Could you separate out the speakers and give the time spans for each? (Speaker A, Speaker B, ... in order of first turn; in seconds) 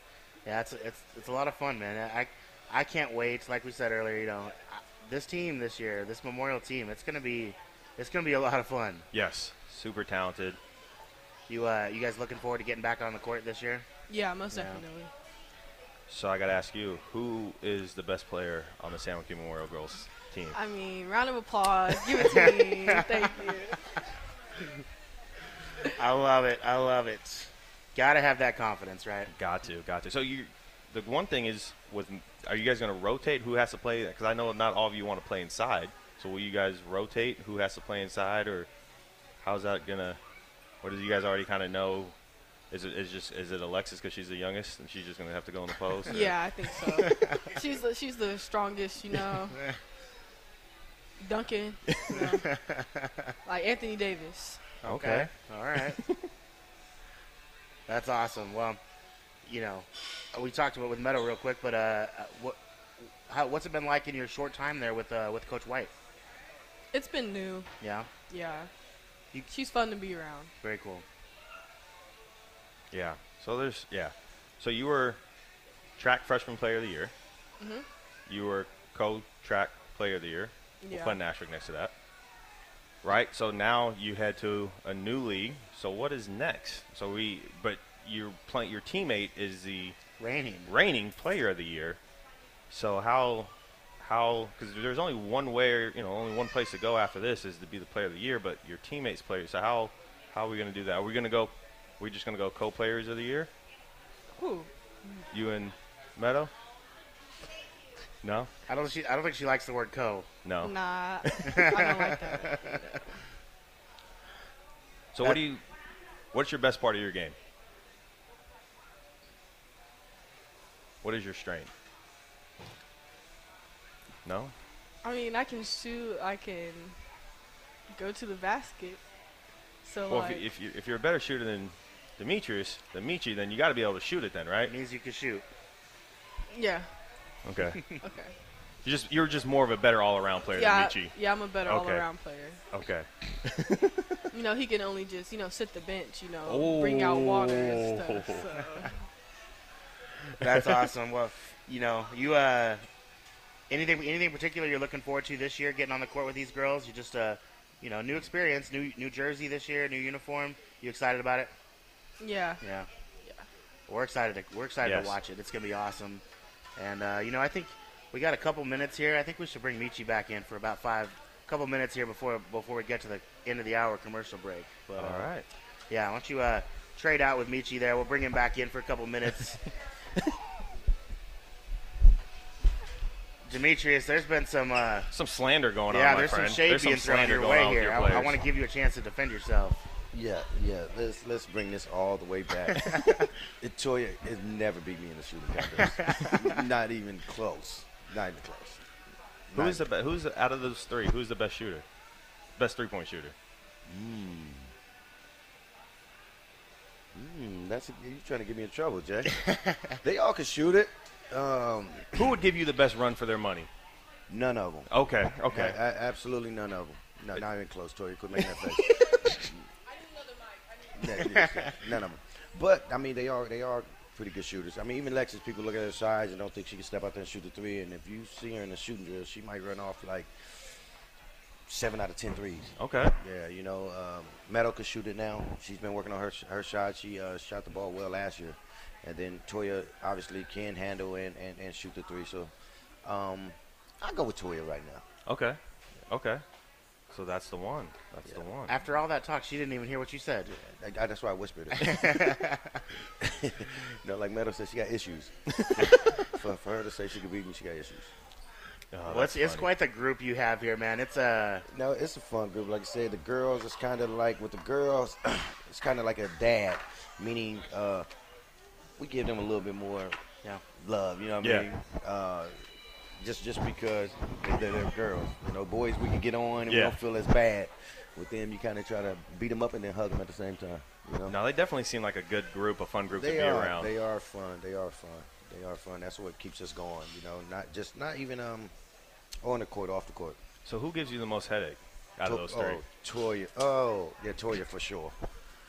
Speaker A: 0.4-9.1, 11.5-13.8, 14.5-14.8, 22.2-22.9, 26.0-29.3, 47.0-47.5, 52.1-53.3, 54.8-56.0, 57.9-58.8, 59.5-62.6, 63.3-65.9, 67.8-68.1, 70.6-71.0, 90.2-90.7, 108.7-110.3, 111.4-112.8, 134.7-135.4, 150.4-152.8, 153.7-161.5, 162.6-162.9, 163.9-166.2, 166.8-175.3, 175.9-179.6, 183.5-185.1, 185.9-189.8, 192.9-193.2, 195.8-196.5, 209.4-209.9, 221.3-221.7, 248.7-250.5, 251.8-252.8, 259.1-261.6
Speaker B: 9.1-10.6, 16.1-20.6, 29.3-38.7, 39.4-40.2, 40.8-42.1, 42.7-46.3, 54.8-55.3, 72.9-75.2, 76.0-77.1, 78.3-81.9, 83.0-90.0, 90.7-92.0, 92.7-103.5, 105.3-106.5, 108.2-108.5, 110.4-110.7, 115.1-115.6, 116.3-117.3, 121.0-121.7, 124.2-124.5, 130.1-134.7, 137.4-137.8, 138.8-142.1, 142.7-144.0, 146.4-148.4, 164.8-165.2, 175.0-175.4, 185.1-188.4, 199.5-201.8, 202.6-203.3, 212.1-213.7, 214.9-215.8, 232.8-233.1, 245.2-245.6, 246.1-246.4, 247.1-248.7, 255.5-255.9, 258.9-259.7, 271.4-271.7, 276.7-276.9, 281.2-283.9, 290.6-292.8
Speaker C: 14.1-15.1, 20.5-23.8, 46.1-49.6, 51.2-52.5, 53.4-54.6, 66.9-67.7, 68.3-68.7, 69.5-70.5, 77.6-77.8, 80.8-81.2, 104.3-104.7, 110.6-113.0, 125.0-127.0, 127.9-129.0, 129.8-130.4, 136.5-136.9, 138.0-138.3, 140.6-142.6, 144.3-149.0, 162.2-162.6
Speaker D: 190.1-193.1, 193.6-198.8, 199.5-199.8, 203.8-204.7, 207.1-212.4, 214.3-214.9, 215.5-219.7, 220.9-230.8, 231.7-242.5, 243.0-245.0, 248.1-248.4, 250.5-252.2, 253.2-258.1, 261.7-268.1, 269.0-270.2, 270.7-272.6, 273.2-281.4, 283.1-288.7, 289.4-290.4, 292.2-295.1